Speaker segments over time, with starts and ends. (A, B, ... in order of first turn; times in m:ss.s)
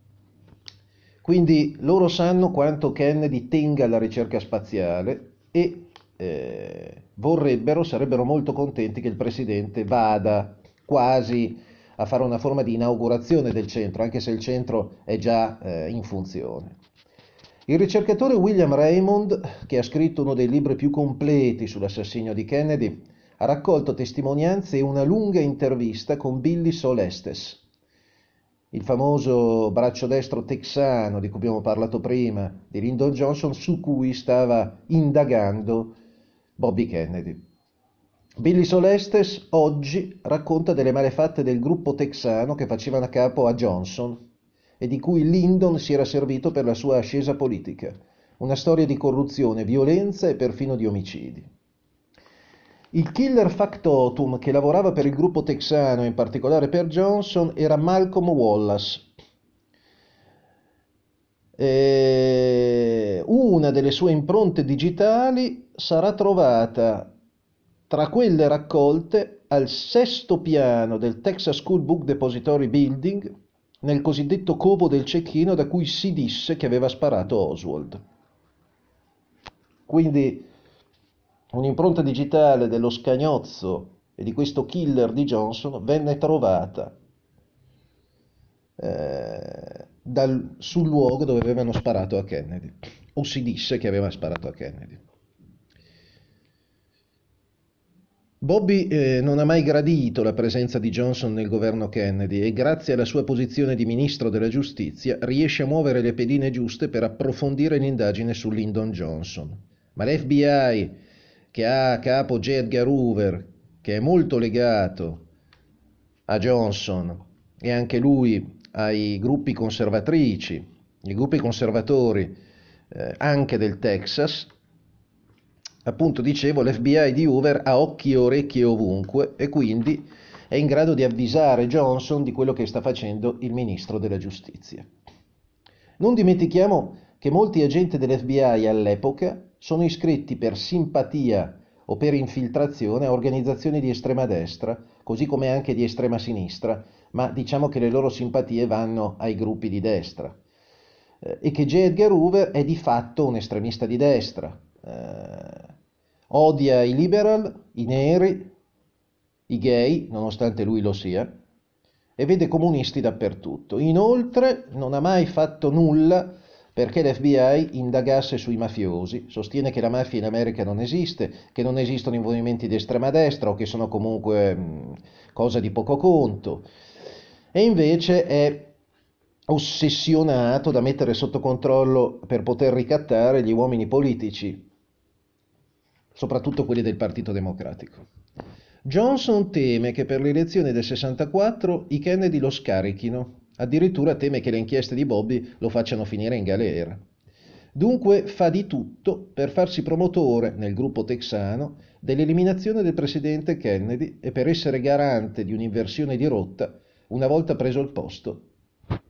0:01.2-0:16.8 A
0:17.7-0:27.6 A
0:28.7-0:36.0 A
0:36.6-0:37.4 A
0:38.4-0:44.2 A
0:44.8-0:51.5 A
0:52.9-0:59.1 A
1:01.6-1:07.1 A
1:07.9-1:13.3 A
1:13.8-1:18.0 A
1:19.9-1:20.5 A
1:21.5-1:27.0 A
1:28.8-1:35.0 A
1:38.4-1:51.0 A
1:51.5-1:55.2 A
1:56.3-2:02.4 A
2:02.9-2:04.5 A
2:05.8-2:14.9 A
2:16.0-2:30.4 A
2:31.2-2:35.7 A
2:36.3-2:38.5 A
2:39.5-2:41.3 A
2:42.2-2:56.7 A
2:57.5-2:58.8 A
2:59.5-3:04.7 A
3:06.2-3:08.0 A
3:08.8-3:17.0 A
3:17.8-3:28.5 A